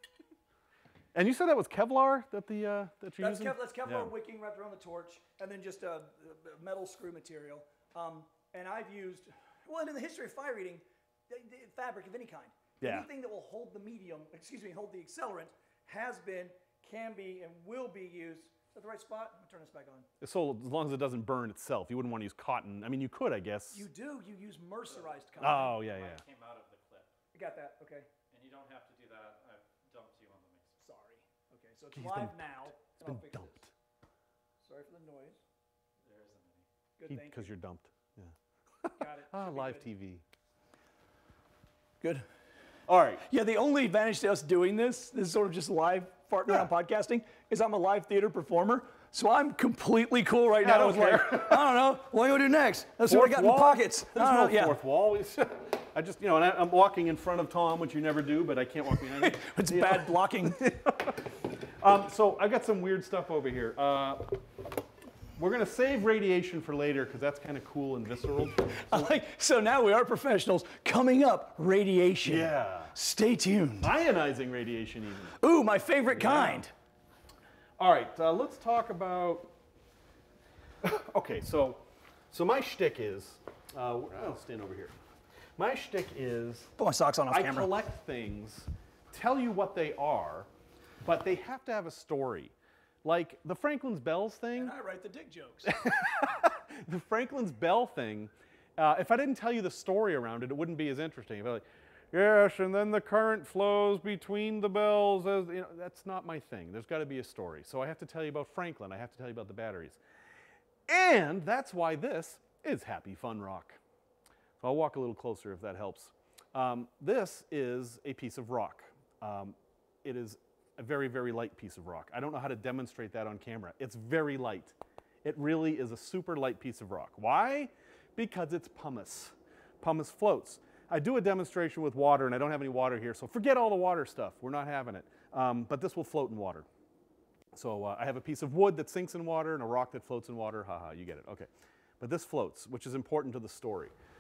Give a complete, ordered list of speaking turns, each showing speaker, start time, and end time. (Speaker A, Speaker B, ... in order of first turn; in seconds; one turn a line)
Speaker A: 1.1-4.1
Speaker B: 3.2-20.1
Speaker A: 12.8-13.1
Speaker A: 20.2-23.9
Speaker B: 23.7-25.8
Speaker C: 24.9-27.1
Speaker A: 25.4-26.2
Speaker B: 27.3-28.1
Speaker C: 28.3-30.8
Speaker B: 30.8-33.6
Speaker A: 31.9-33.7
Speaker B: 34.6-35.4
Speaker C: 36.0-36.7
Speaker B: 37.0-37.5
Speaker A: 37.1-40.2
Speaker B: 39.0-39.9
Speaker B: 42.0-42.3
Speaker A: 42.9-43.2
Speaker B: 43.3-54.8
Speaker A: 50.6-51.7
Speaker A: 53.1-61.2
Speaker B: 59.1-60.7
Speaker A: 61.8-64.4
Speaker A: 65.4-69.2
Speaker B: 68.8-73.9
Speaker A: 72.2-72.9
Speaker A: 73.8-75.4
Speaker B: 75.4-76.7
Speaker A: 76.1-76.7
Speaker A: 77.8-79.5
Speaker A: 80.8-85.0
Speaker A: 85.6-86.7
Speaker B: 86.8-87.7
Speaker A: 87.3-90.5
Speaker A: 91.0-92.5
Speaker A: 93.0-94.8
Speaker B: 94.5-96.0
Speaker A: 95.6-110.0
Speaker A: 110.9-113.8
Speaker A: 114.6-136.7
Speaker A: 137.5-141.5
Speaker A: 142.0-143.9